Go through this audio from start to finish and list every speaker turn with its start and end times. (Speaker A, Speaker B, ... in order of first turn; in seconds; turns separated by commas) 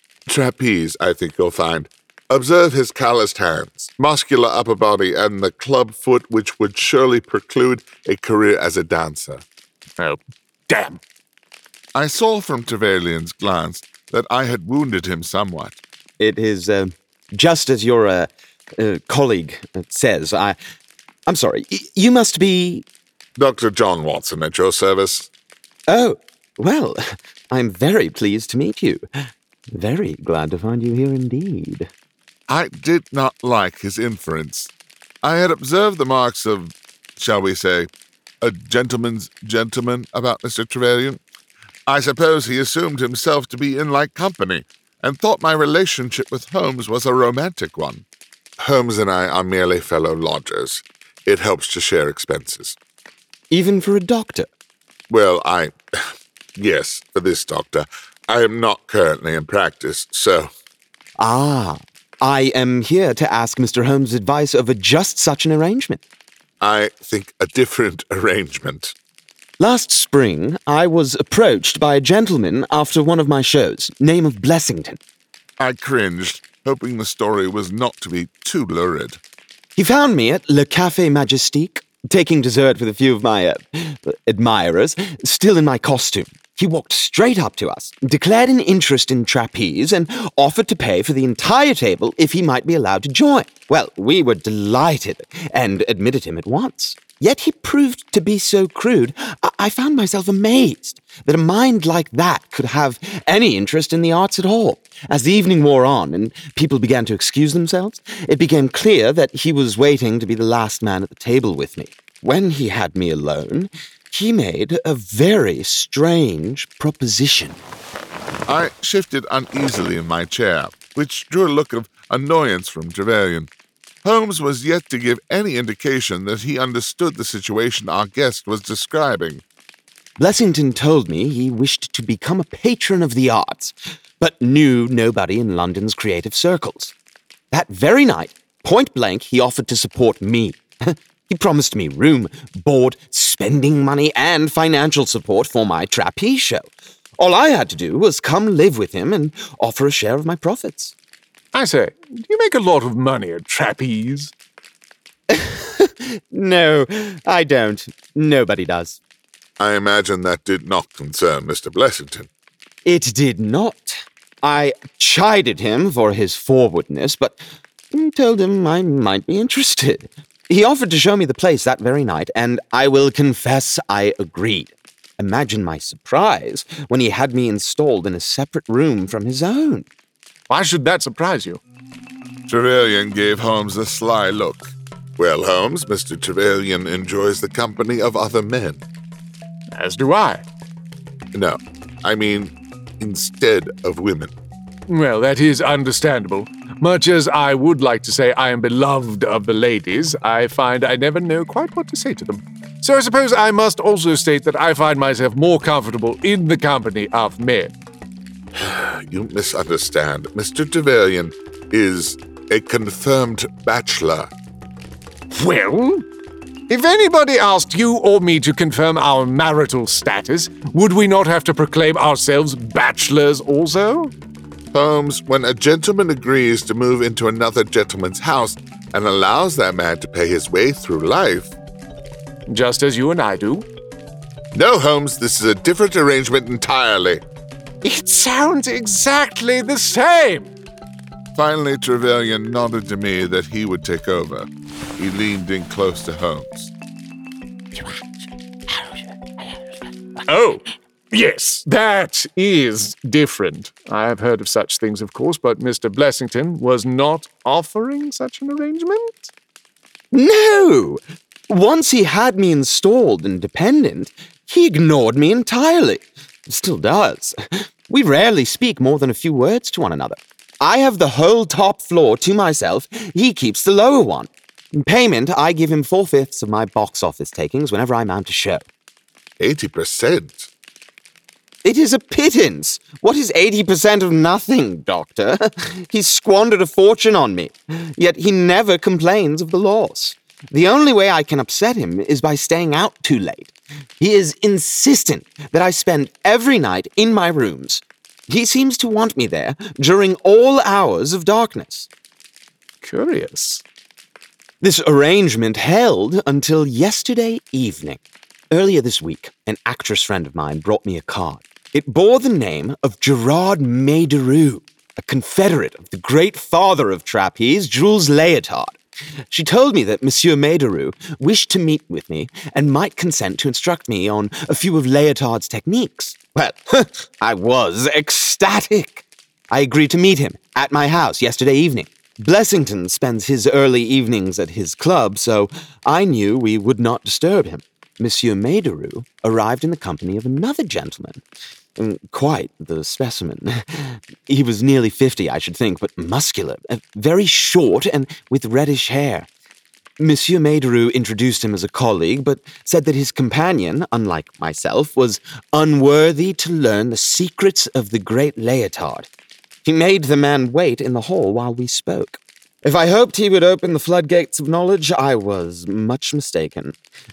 Speaker A: 0.3-9.4, Speaker B: 10.0-11.0, Speaker A: 11.9-15.8, Speaker C: 16.2-20.6, Speaker C: 21.3-22.9, Speaker A: 23.4-25.3, Speaker C: 25.9-29.0, Speaker C: 29.7-31.9, Speaker A: 32.5-34.7, Speaker A: 35.2-37.9, Speaker A: 38.4-41.2, Speaker A: 41.9-48.0, Speaker A: 48.6-52.8, Speaker C: 53.5-54.5, Speaker A: 55.1-60.5, Speaker C: 61.2-66.0, Speaker A: 66.6-68.9, Speaker C: 69.6-75.0, Speaker A: 75.6-79.2, Speaker C: 79.8-117.6, Speaker A: 118.5-123.5, Speaker A: 124.0-129.4, Speaker C: 130.2-136.9, Speaker C: 137.5-150.9, Speaker B: 151.5-154.3, Speaker C: 155.3-159.0, Speaker A: 159.6-162.3, Speaker C: 162.8-167.4, Speaker C: 167.9-179.9, Speaker B: 180.5-181.6, Speaker A: 182.5-188.8, Speaker B: 189.7-190.4, Speaker A: 191.3-194.3, Speaker B: 194.9-207.7, Speaker A: 208.5-214.3, Speaker B: 215.3-216.0, Speaker B: 216.7-224.1, Speaker A: 224.7-231.5, Speaker B: 232.5-233.7, Speaker A: 234.5-237.2, Speaker B: 237.8-240.5, Speaker A: 241.3-246.7, Speaker B: 250.3-259.3, Speaker C: 260.1-278.6, Speaker A: 279.4-280.5, Speaker C: 281.6-301.9, Speaker B: 302.8-303.6, Speaker C: 304.6-308.0, Speaker C: 308.5-318.8, Speaker C: 319.3-341.2, Speaker C: 341.8-349.3, Speaker C: 350.0-359.1, Speaker C: 359.6-366.8